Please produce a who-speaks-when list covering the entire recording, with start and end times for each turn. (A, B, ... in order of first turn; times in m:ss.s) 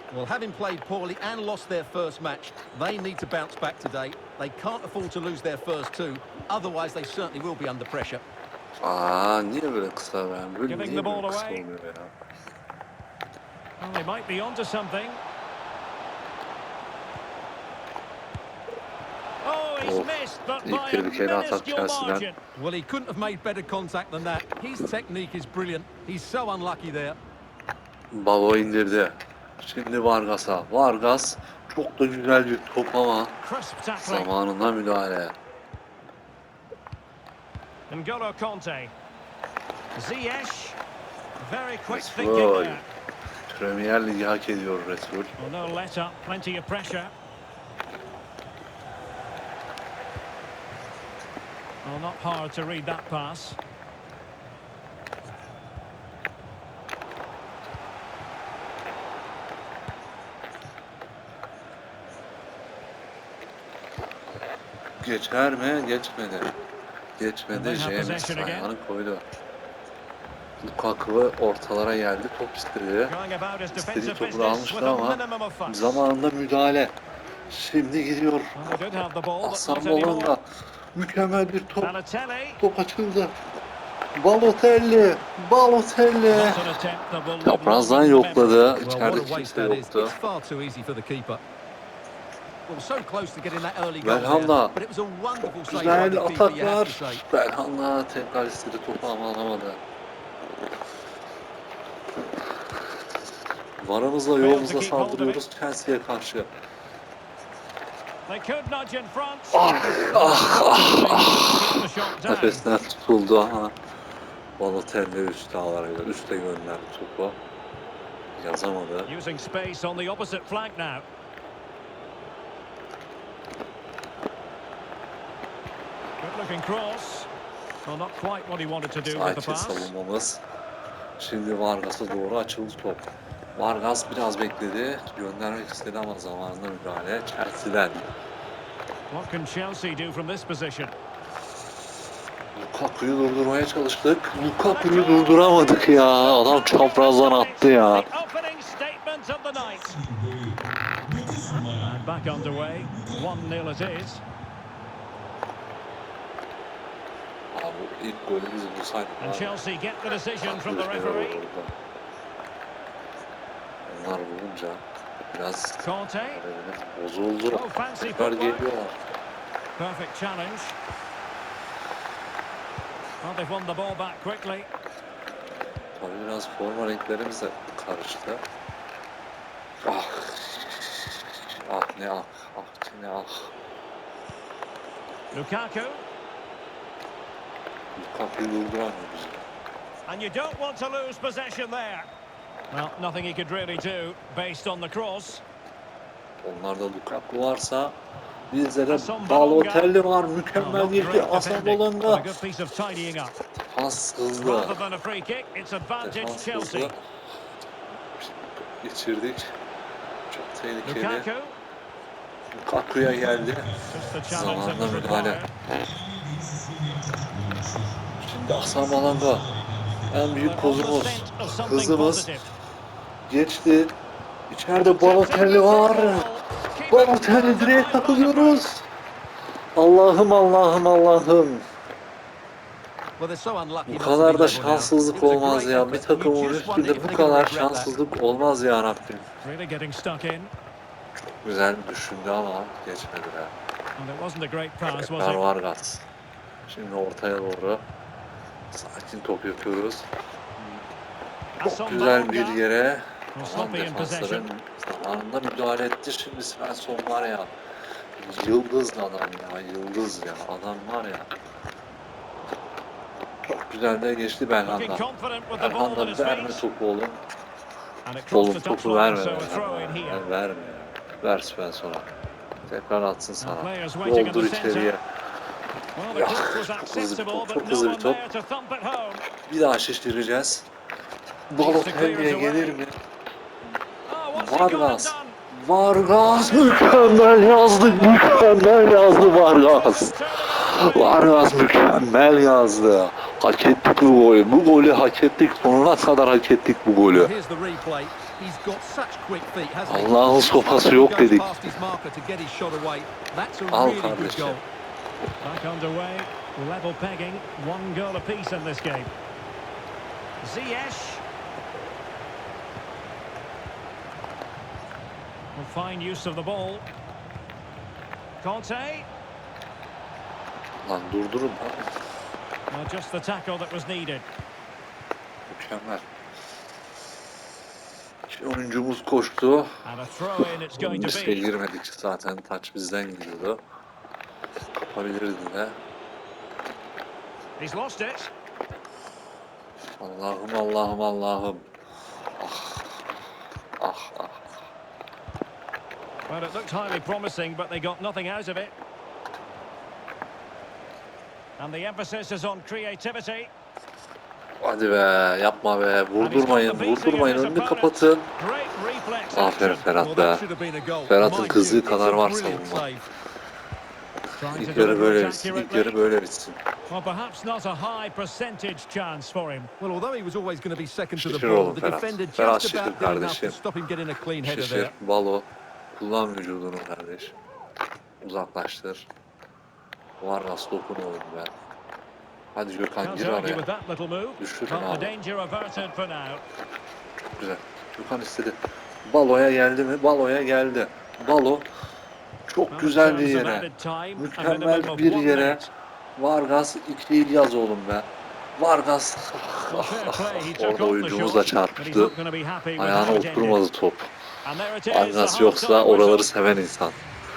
0:00.1-0:08.2 A
0:08.8-0:12.1 B
0:10.7-0:11.7 C
0:13.8-0:15.2 C
0:19.4-0:22.4 C
0:19.8-0:22.3 B
0:22.6-0:27.2 A
0:28.1-0:33.4 B
0:33.4-0:34.3 C
0:34.0-0:35.4 B
0:37.9-0:38.9 C
0:40.0-0:40.8 C
0:41.4-0:42.9 C
0:41.9-0:42.8 B
0:43.5-0:45.4 B
0:45.4-0:47.1 C
0:51.8-0:53.6 C
1:05.0-1:06.5 B
1:07.2-1:09.2 B
1:07.5-1:08.7 C
1:10.6-1:13.2 B
1:13.1-1:16.0 C
1:13.7-1:17.0 B
1:17.5-1:18.6 B
1:18.6-1:20.4 C
1:19.4-1:21.9 B
1:21.8-1:22.6 C
1:22.6-1:23.4 B
1:24.2-1:26.7 B
1:26.3-1:28.8 C
1:27.4-1:30.2 B
1:28.8-1:31.4 A
1:32.7-1:37.2 A
1:34.0-1:34.8 B
1:35.7-1:39.8 B
1:43.8-1:46.5 B
1:44.4-1:45.4 C
1:48.3-1:52.6 C
1:49.5-1:53.7 B
1:54.6-1:57.4 B
1:58.4-1:59.1 B
1:59.1-2:01.0 C
2:06.2-2:07.3 C
2:07.8-2:09.9 C
2:09.1-2:10.4 B
2:11.2-2:18.1 B
2:19.1-2:20.9 C
2:22.5-2:28.1 B
2:24.6-2:30.0 C
2:31.5-2:34.2 C
2:37.5-2:39.6 B
2:39.2-2:41.4 C
2:40.4-2:41.7 B
2:43.9-2:49.0 B
2:45.8-2:46.4 C
2:47.5-2:48.7 C
2:49.8-2:50.8 C
2:53.2-2:54.7 C
2:56.0-2:58.4 B
2:59.8-3:03.5 B
3:05.3-3:06.1 C
3:08.0-3:09.4 B
3:10.1-3:12.1 C
3:12.7-3:15.4 C
3:16.4-3:18.0 B
3:18.5-3:22.3 B
3:18.9-3:19.9 C
3:20.6-3:23.4 C
3:23.6-3:24.8 B
3:24.4-3:26.9 C
3:26.0-3:27.0 B
3:28.2-3:29.6 B
3:30.3-3:31.3 B
3:30.8-3:31.6 C
3:32.5-3:35.4 B
3:33.8-3:35.5 C
3:36.5-3:37.0 A
3:38.2-3:39.5 B
3:40.1-3:42.3 B
3:40.4-3:42.5 C
3:43.3-3:43.9 B
3:44.5-3:46.3 B
3:44.8-3:48.7 C
3:46.9-3:48.9 B
3:49.8-3:51.6 B
3:53.2-3:57.9 A
3:53.9-3:59.3 B
3:59.4-4:00.5 C
4:01.4-4:03.5 B
4:04.0-4:05.4 C
4:04.9-4:06.1 B
4:06.7-4:07.8 B
4:08.7-4:10.1 B
4:11.6-4:12.6 C
4:11.6-4:17.5 B
4:13.3-4:14.5 C
4:18.2-4:21.3 B
4:23.5-4:27.2 B
4:24.6-4:26.6 C
4:28.0-4:30.2 C
4:28.3-4:32.1 B
4:32.7-4:35.0 B
4:33.4-4:35.0 C
4:36.0-4:39.2 C
4:36.1-4:38.2 B
4:39.5-4:40.7 B
4:41.5-4:43.0 B
4:41.6-4:42.8 C
4:44.1-4:45.4 C
4:44.4-4:57.3 B
4:46.2-4:51.5 C
4:57.1-5:04.6 A
4:59.9-5:01.5 B
5:03.7-5:04.6 B
5:05.4-5:09.1 C
5:10.4-5:11.2 C
5:15.6-5:16.9 C
5:18.4-5:19.1 C
5:20.8-5:21.9 B
5:22.7-5:24.3 C
5:25.5-5:26.0 B
5:28.3-5:29.7 B
5:29.8-5:31.5 C
5:30.7-5:33.6 B
5:34.8-5:35.8 B
5:37.6-5:38.3 C
5:40.0-5:41.7 B
5:42.4-5:43.0 B
5:43.8-5:44.5 B
5:46.3-5:48.7 C
5:51.6-5:53.5 C
5:54.6-5:58.3 B
5:56.2-5:59.9 C
5:59.3-6:00.4 B
6:00.0-6:03.1 A
6:01.0-6:02.9 B
6:04.4-6:06.0 C
6:04.5-6:06.6 B
6:06.9-6:09.7 C
6:09.8-6:14.9 A
6:11.2-6:13.6 B
6:14.4-6:17.4 B
6:18.2-6:19.1 B
6:20.2-6:21.5 B
6:22.5-6:23.7 B
6:23.0-6:26.4 C
6:24.4-6:25.2 B
6:27.4-6:31.7 B
6:32.5-6:35.7 B
6:32.7-6:35.7 C
6:36.2-6:42.2 B
6:39.7-6:43.6 C
6:42.8-6:44.1 B
6:44.4-6:46.3 C
6:44.9-6:47.0 B